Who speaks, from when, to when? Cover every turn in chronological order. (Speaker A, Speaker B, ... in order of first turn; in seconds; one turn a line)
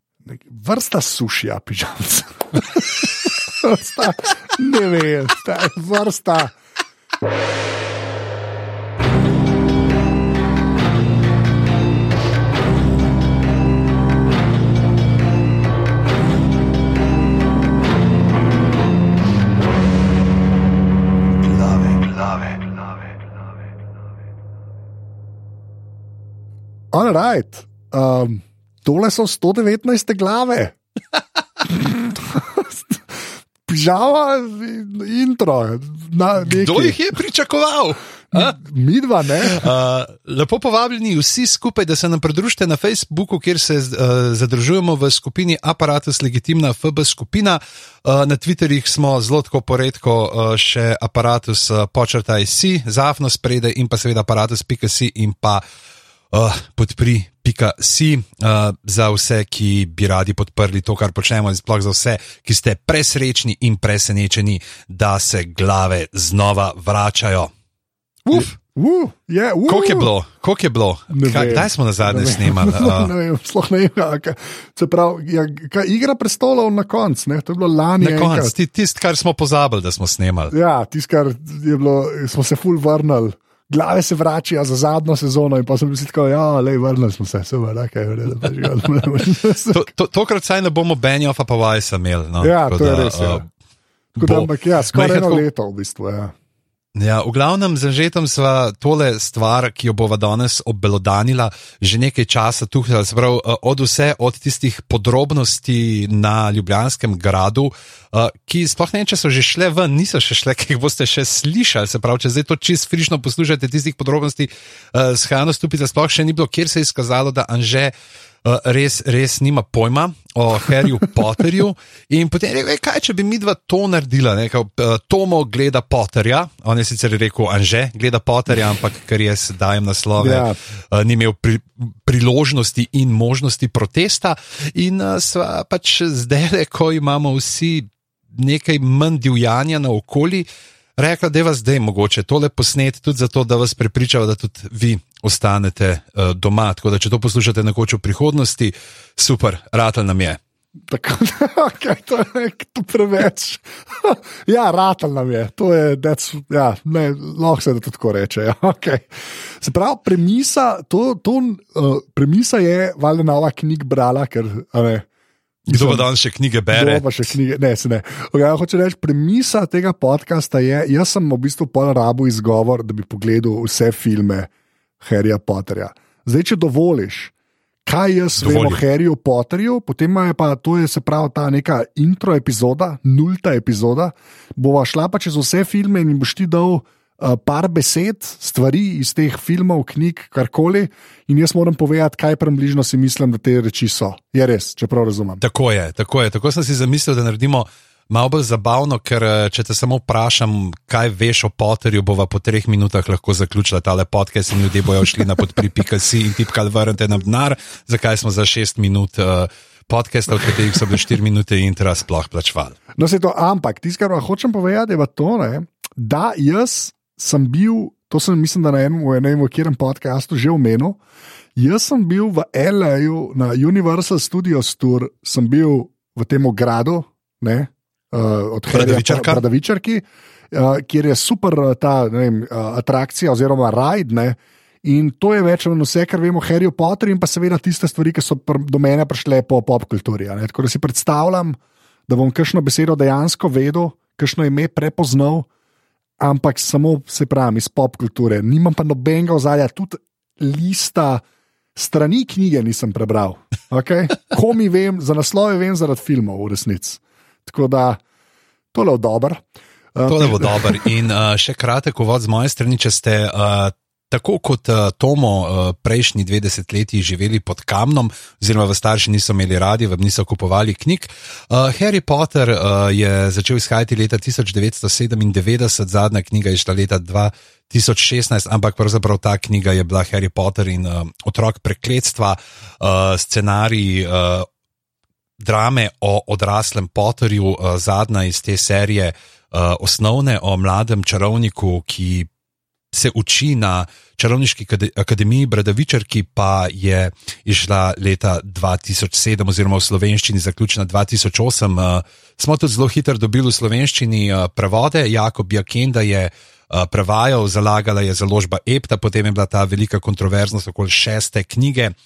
Speaker A: 0.2-6.5
Speaker A: 26.9-30.8
Speaker A: 31.7-37.0
Speaker B: 36.4-38.6
Speaker A: 38.3-39.6
Speaker B: 39.4-55.6
Speaker B: 56.3-67.5
Speaker A: 68.3-70.1
Speaker B: 68.3-68.6
Speaker B: 69.7-73.1
Speaker A: 71.1-78.5
Speaker B: 78.0-80.5
Speaker A: 80.5-89.9
Speaker B: 89.6-93.5
Speaker A: 92.4-93.5
Speaker A: 94.2-96.3
Speaker B: 94.2-95.5
Speaker B: 97.0-117.9
Speaker B: 118.4-140.5
Speaker A: 130.2-130.6
Speaker B: 141.0-150.4
Speaker A: 150.9-165.1
Speaker B: 165.7-167.3
Speaker A: 165.7-166.1
Speaker A: 166.7-174.5
Speaker A: 175.0-177.3
Speaker A: 177.9-195.4
Speaker B: 178.4-178.8
Speaker B: 195.4-212.8
Speaker A: 213.0-221.0
Speaker A: 221.6-245.5
Speaker B: 228.7-229.4
Speaker A: 246.2-251.2
Speaker A: 251.8-258.0
Speaker A: 258.7-259.4
Speaker A: 259.9-260.9
Speaker B: 260.1-284.5
Speaker B: 285.4-292.3
Speaker B: 292.9-311.9